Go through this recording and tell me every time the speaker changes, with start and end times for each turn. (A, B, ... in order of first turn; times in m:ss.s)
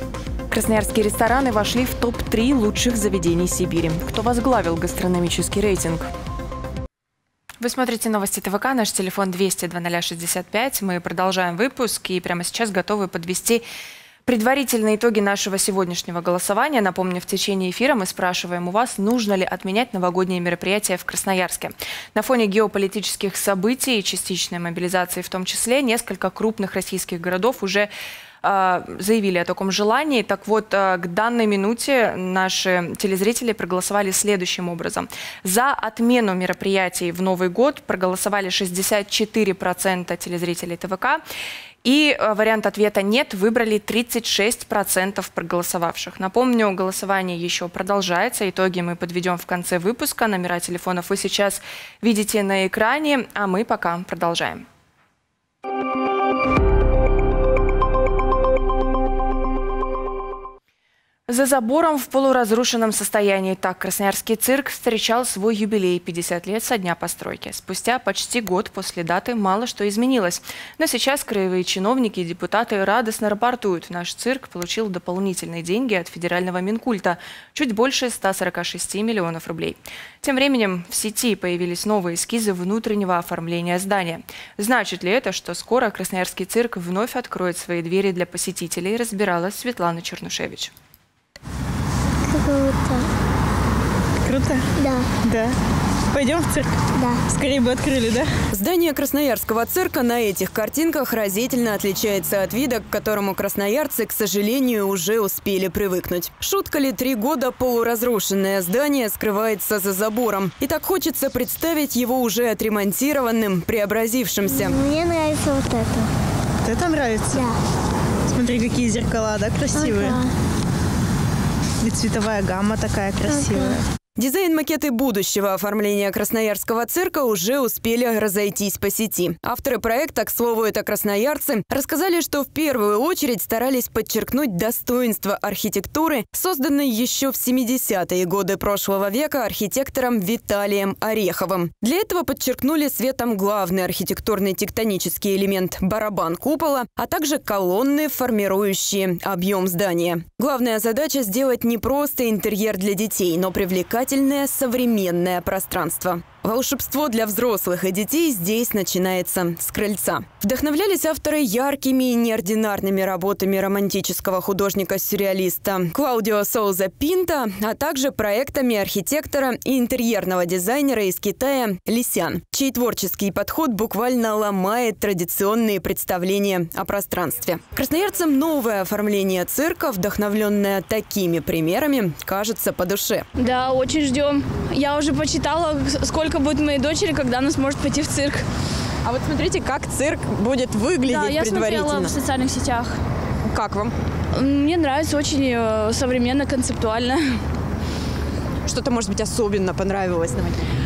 0:00.5-0:06.1 A
0:07.6-0:13.6 A
0:14.3-0:27.9 A
0:28.4-0:41.2 A
0:41.8-0:54.6 A
1:01.3-1:30.7 A
1:32.3-1:33.1 B
1:34.2-1:35.6 C
1:36.1-1:38.3 C
1:38.5-1:54.8 D
1:54.5-1:56.1 B
1:56.6-1:57.5 C
1:58.3-2:00.2 C
1:59.8-2:00.2 B
2:01.8-2:03.8 C
2:03.3-2:03.7 B
2:04.2-3:03.3 D
3:03.4-3:08.4 E
3:09.0-3:12.2 D
3:11.1-3:13.0 E
3:13.5-3:14.0 D
3:14.3-3:17.4 E
3:18.6-3:20.6 D